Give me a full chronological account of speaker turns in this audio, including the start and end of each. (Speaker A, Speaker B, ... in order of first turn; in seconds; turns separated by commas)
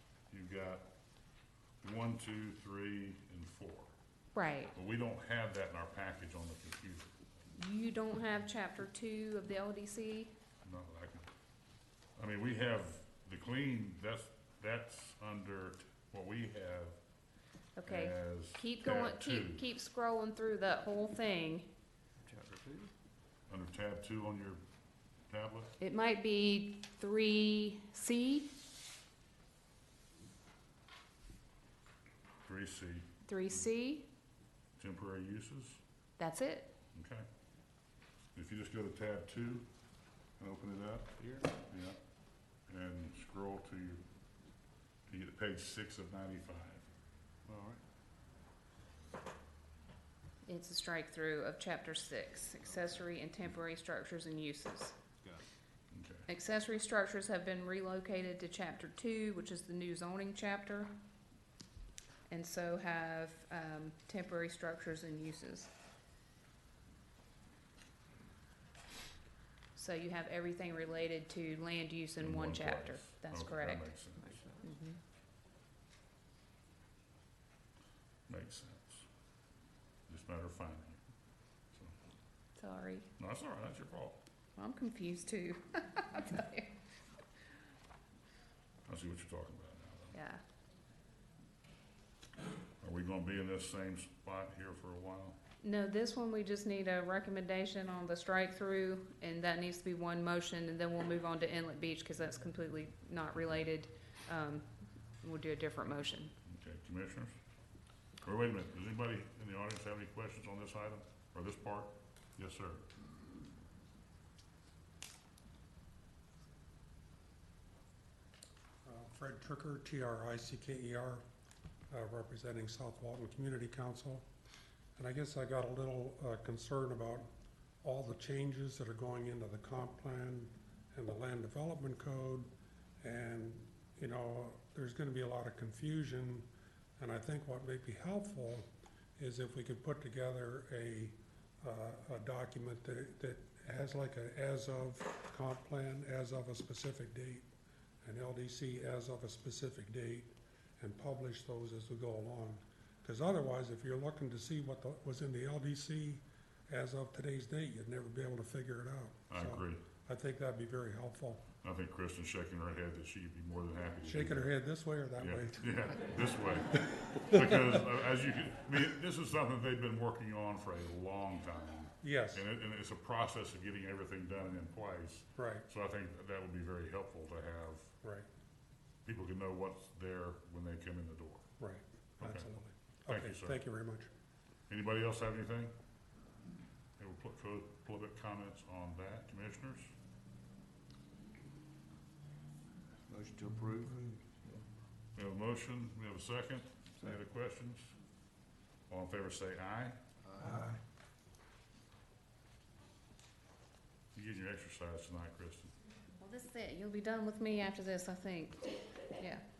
Speaker A: 0.3-0.8, Speaker A: 1.8-3.9, Speaker B: 4.3-4.7, Speaker A: 4.7-7.1, Speaker B: 7.5-10.3, Speaker A: 10.6-11.3, Speaker A: 12.2-17.0, Speaker B: 17.8-21.7, Speaker A: 17.9-19.6, Speaker C: 22.2-22.9, Speaker A: 23.5-24.6, Speaker A: 25.3-25.7, Speaker B: 25.8-28.5, Speaker A: 32.4-33.6, Speaker B: 33.2-34.1, Speaker A: 34.8-35.8, Speaker B: 36.2-36.7, Speaker A: 36.9-37.2, Speaker A: 38.3-39.7, Speaker A: 40.4-42.0, Speaker A: 42.7-44.0, Speaker A: 45.1-46.9, Speaker C: 47.5-47.8, Speaker B: 50.5-55.0, Speaker A: 55.9-56.3, Speaker B: 56.3-60.9, Speaker B: 62.3-65.7, Speaker B: 69.8-73.9, Speaker A: 72.2-74.5, Speaker B: 74.5-75.0, Speaker A: 78.3-79.0, Speaker A: 80.1-81.0, Speaker B: 82.5-83.1, Speaker A: 83.2-84.2, Speaker B: 84.6-86.8, Speaker A: 88.9-90.2, Speaker B: 90.1-90.4, Speaker A: 92.8-95.4, Speaker B: 95.6-104.7, Speaker B: 105.2-106.3, Speaker A: 106.5-107.3, Speaker A: 108.2-112.8, Speaker D: 118.8-121.2, Speaker D: 121.9-124.2, Speaker D: 125.0-127.3, Speaker D: 127.8-132.5, Speaker D: 133.0-136.4, Speaker D: 137.0-138.7, Speaker D: 139.2-147.5, Speaker D: 148.0-161.4, Speaker A: 159.3-159.8, Speaker A: 161.6-164.5, Speaker D: 164.0-165.7, Speaker A: 165.2-177.9, Speaker D: 167.3-167.8, Speaker D: 172.0-172.4, Speaker D: 175.3-175.7, Speaker A: 179.0-181.4, Speaker D: 181.6-184.1, Speaker A: 182.2-182.5, Speaker A: 183.1-183.6, Speaker A: 184.7-185.7, Speaker A: 187.0-189.9, Speaker C: 193.1-194.1, Speaker A: 195.1-197.9, Speaker A: 198.9-200.0, Speaker C: 200.2-200.7, Speaker A: 204.1-205.7, Speaker B: 206.2-209.4